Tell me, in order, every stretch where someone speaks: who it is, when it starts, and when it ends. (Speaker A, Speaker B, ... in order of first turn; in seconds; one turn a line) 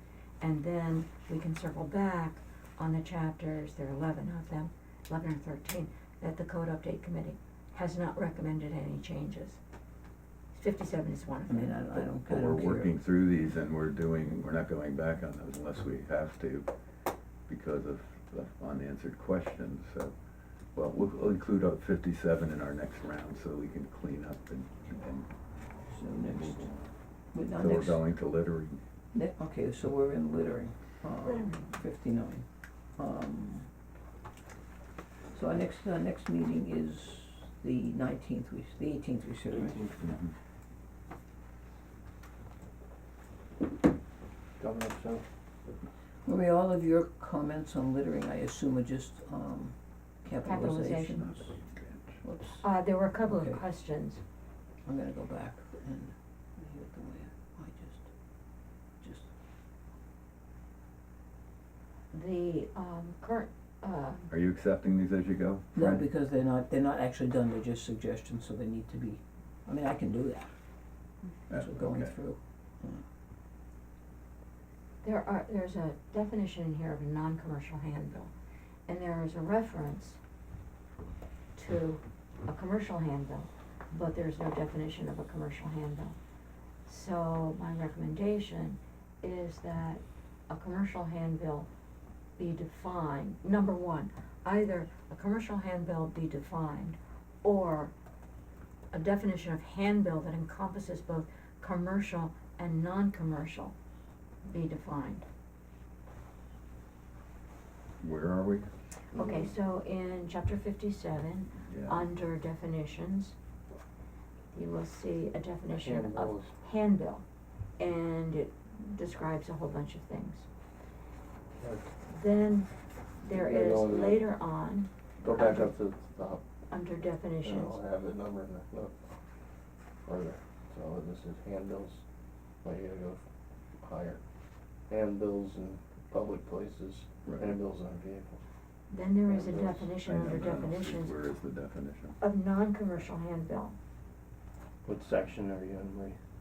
Speaker A: 0.4-9.6
Speaker A: 10.5-11.8
Speaker B: 11.5-12.9
Speaker C: 12.1-16.7
Speaker C: 17.5-20.1
Speaker C: 20.8-25.3
Speaker B: 25.9-26.7
Speaker C: 26.3-26.8
Speaker B: 27.3-28.0
Speaker C: 27.6-28.8
Speaker B: 29.1-32.5
Speaker A: 31.3-31.7
Speaker B: 33.0-33.7
Speaker B: 35.3-39.8
Speaker D: 39.5-40.2
Speaker C: 40.0-40.3
Speaker D: 44.6-45.2
Speaker B: 46.2-51.5
Speaker A: 50.4-51.5
Speaker C: 51.3-52.2
Speaker B: 52.2-52.7
Speaker A: 52.6-54.2
Speaker B: 53.2-53.6
Speaker B: 54.9-58.0
Speaker A: 62.1-64.3
Speaker C: 64.3-66.1
Speaker B: 65.8-70.5
Speaker C: 71.5-72.2
Speaker B: 71.5-73.0
Speaker A: 75.0-78.3
Speaker A: 78.9-80.2
Speaker A: 81.5-86.2
Speaker A: 86.8-91.7
Speaker A: 92.4-97.9
Speaker A: 98.9-103.8
Speaker A: 104.4-105.2
Speaker C: 108.0-108.7
Speaker D: 109.1-109.5
Speaker A: 109.2-113.3
Speaker C: 111.7-112.1
Speaker A: 114.5-117.2
Speaker D: 115.7-116.5
Speaker A: 117.8-120.5
Speaker D: 121.6-121.9
Speaker A: 122.1-125.7
Speaker D: 123.3-124.2
Speaker D: 125.2-126.4
Speaker A: 126.7-127.8
Speaker D: 127.4-128.9
Speaker D: 130.1-132.0
Speaker D: 132.6-133.2
Speaker D: 133.8-134.2
Speaker D: 134.9-138.4
Speaker C: 137.2-137.6
Speaker A: 138.9-141.2
Speaker D: 139.3-139.9
Speaker C: 140.0-142.2
Speaker A: 142.2-143.8
Speaker D: 144.8-146.2